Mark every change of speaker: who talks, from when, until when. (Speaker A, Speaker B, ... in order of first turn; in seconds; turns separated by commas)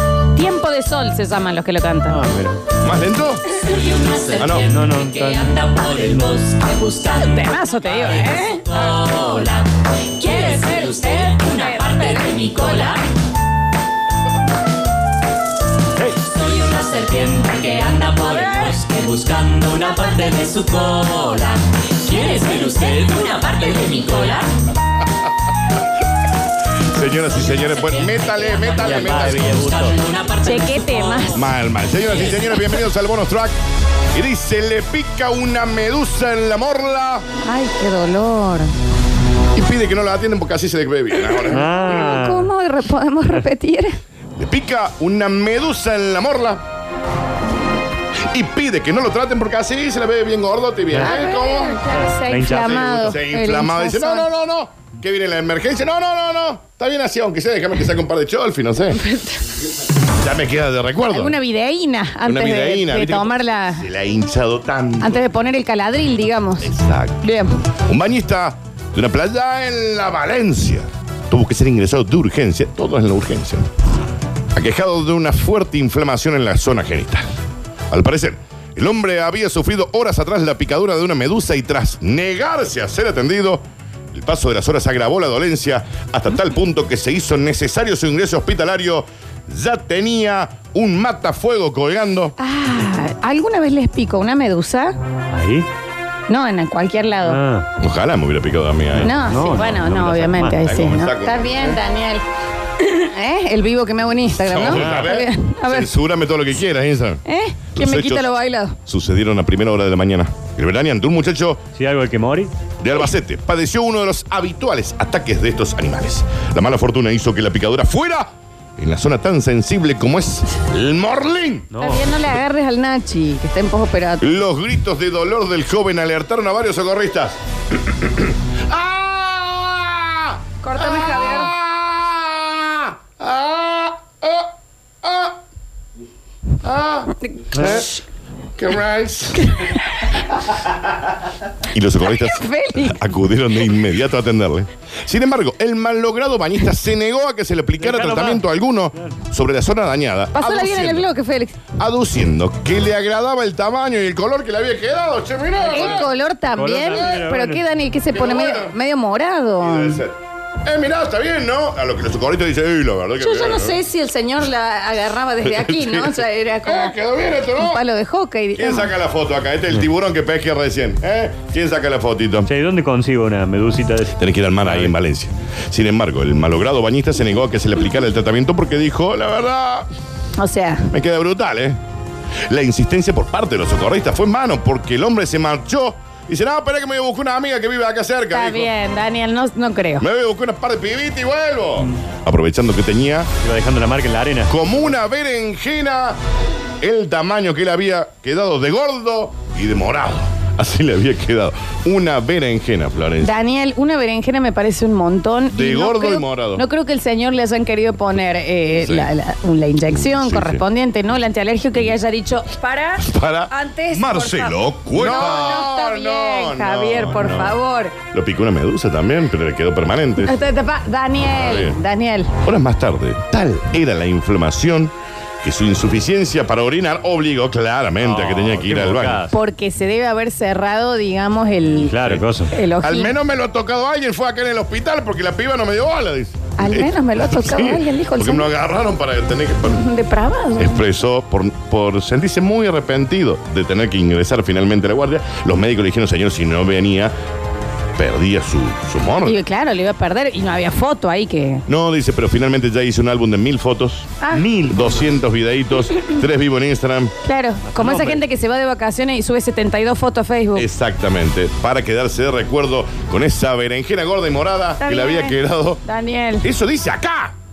Speaker A: 0.3-2.2, Speaker B: 2.1-2.6, Speaker C: 2.8-3.5, Speaker D: 3.6-13.1, Speaker C: 4.4-4.7, Speaker B: 4.7-6.4, Speaker A: 7.0-9.0, Speaker A: 10.2-12.9, Speaker D: 16.1-24.5, Speaker A: 18.3-18.7, Speaker C: 26.9-29.6, Speaker D: 27.5-31.4, Speaker B: 28.8-30.2, Speaker A: 30.4-31.4, Speaker C: 31.3-33.5, Speaker C: 34.1-37.2, Speaker A: 37.4-38.7, Speaker C: 39.5-41.7, Speaker A: 41.1-44.0, Speaker B: 41.5-42.5, Speaker C: 44.4-46.6, Speaker C: 48.3-51.8, Speaker B: 50.9-51.2, Speaker A: 51.0-54.3, Speaker B: 51.9-53.2, Speaker C: 53.0-59.0, Speaker A: 58.9-59.4, Speaker C: 60.2-61.4, Speaker A: 61.1-63.9, Speaker C: 62.2-65.2, Speaker A: 65.0-66.7, Speaker C: 66.6-67.2, Speaker A: 67.2-67.5, Speaker C: 67.9-73.7, Speaker C: 74.5-77.3, Speaker C: 77.9-83.6, Speaker C: 84.1-92.3, Speaker A: 92.4-95.0, Speaker B: 95.3-95.7, Speaker A: 96.3-97.4, Speaker B: 97.2-97.7, Speaker C: 97.8-99.2, Speaker B: 98.9-100.6, Speaker A: 99.0-102.2, Speaker C: 100.6-101.8, Speaker A: 102.8-106.0, Speaker C: 104.4-107.2, Speaker B: 104.7-105.2, Speaker A: 107.2-108.8, Speaker C: 107.8-108.3, Speaker C: 108.8-111.6, Speaker B: 111.8-112.5, Speaker C: 112.8-121.7, Speaker B: 121.7-122.1, Speaker A: 121.8-124.2, Speaker C: 124.2-134.5, Speaker A: 130.6-131.5, Speaker C: 135.0-135.4, Speaker C: 136.6-138.0, Speaker B: 137.5-137.8, Speaker A: 137.7-137.9, Speaker C: 138.6-139.6, Speaker A: 139.5-140.2, Speaker C: 141.7-151.1, Speaker A: 142.0-143.0, Speaker B: 147.8-148.4, Speaker A: 150.3-151.6, Speaker C: 151.8-156.1, Speaker A: 155.6-160.0, Speaker B: 156.5-157.6, Speaker C: 158.1-158.8, Speaker C: 159.6-163.8, Speaker A: 163.2-166.9, Speaker C: 165.4-167.8, Speaker A: 167.6-168.9, Speaker C: 168.6-172.5, Speaker B: 172.5-174.9, Speaker C: 174.2-179.9, Speaker A: 180.4-180.9, Speaker C: 180.9-181.8, Speaker C: 182.5-188.7, Speaker A: 188.3-190.1, Speaker C: 190.0-193.3, Speaker B: 193.4-194.5, Speaker C: 194.5-196.2, Speaker C: 196.8-203.3, Speaker A: 203.2-218.0, Speaker C: 205.5-206.6, Speaker C: 208.8-209.1, Speaker C: 209.9-210.6, Speaker C: 213.0-217.6, Speaker C: 218.1-220.4, Speaker A: 220.2-222.3, Speaker C: 221.3-221.8, Speaker C: 222.4-229.2, Speaker B: 228.0-229.4, Speaker A: 229.3-231.9, Speaker B: 231.8-232.5, Speaker A: 232.5-233.2, Speaker C: 232.8-239.9, Speaker A: 236.6-238.5, Speaker A: 239.7-240.8, Speaker C: 240.6-247.1, Speaker C: 248.0-249.4, Speaker A: 249.2-251.6, Speaker C: 251.7-254.1, Speaker B: 254.3-255.0, Speaker C: 254.7-257.1, Speaker A: 257.2-260.7, Speaker B: 257.7-258.2, Speaker C: 260.6-265.8, Speaker A: 264.8-266.5, Speaker C: 266.4-267.3